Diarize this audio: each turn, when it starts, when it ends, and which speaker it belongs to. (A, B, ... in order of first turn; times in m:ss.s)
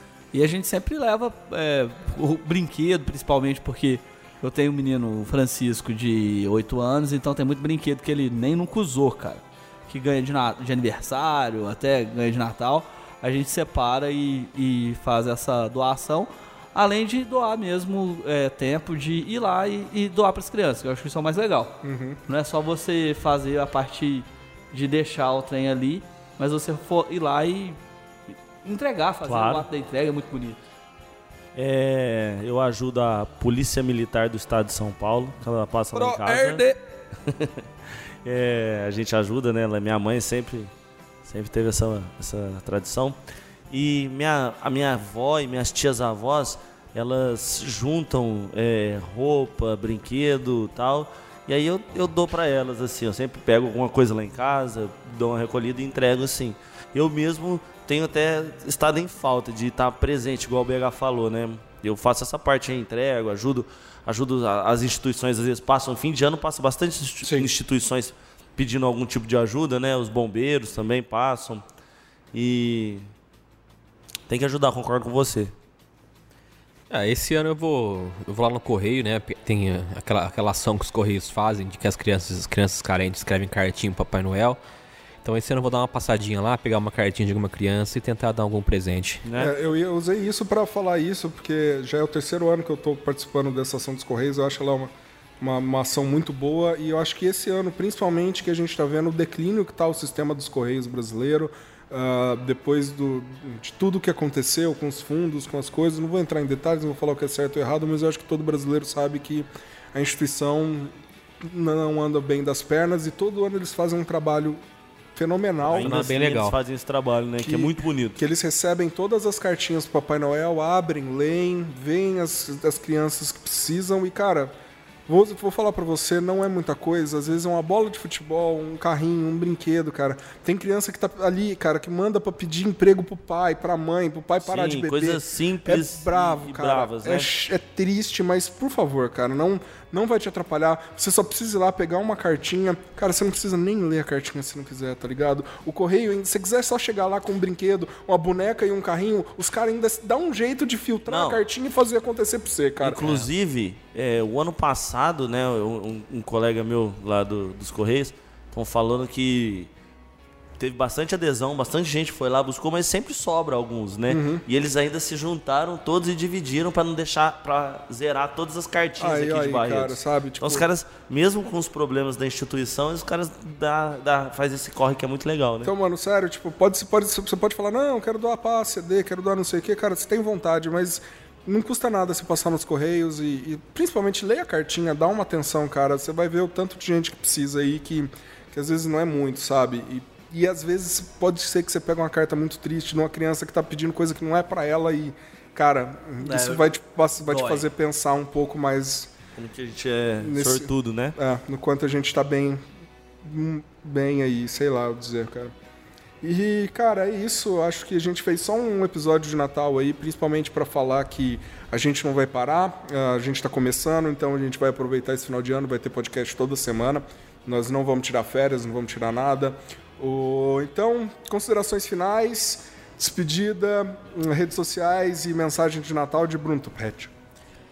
0:00.3-0:27.8 A
0:21.8-0:22.2 B
0:28.6-0:30.6 A
0:29.3-0:29.6 C
0:31.5-0:36.6 C
0:36.0-0:36.8 A
0:37.2-0:37.6 C
0:38.2-0:40.7 C
0:41.2-0:43.2 C
0:43.7-1:11.6 C
1:07.2-1:07.5 B
1:12.3-1:13.0 C
1:14.3-1:15.5 C
1:16.9-1:24.6 D
1:25.2-1:29.2 D
1:29.2-1:29.5 C
1:29.4-1:54.6 B
1:55.1-1:56.0 B
1:55.7-1:58.2 C
1:55.7-1:56.6 D
1:57.4-2:04.5 B
2:05.1-2:33.2 B
2:14.4-2:17.3 C
2:31.1-2:31.4 C
2:32.8-2:39.7 C
2:40.6-2:55.7 C
2:44.1-2:44.4 B
2:49.0-2:50.7 B
2:55.6-3:19.1 B
3:16.2-3:17.6 A
3:19.4-3:21.2 C
3:20.2-3:22.6 B
3:23.2-3:25.5 B
3:26.2-3:47.1 B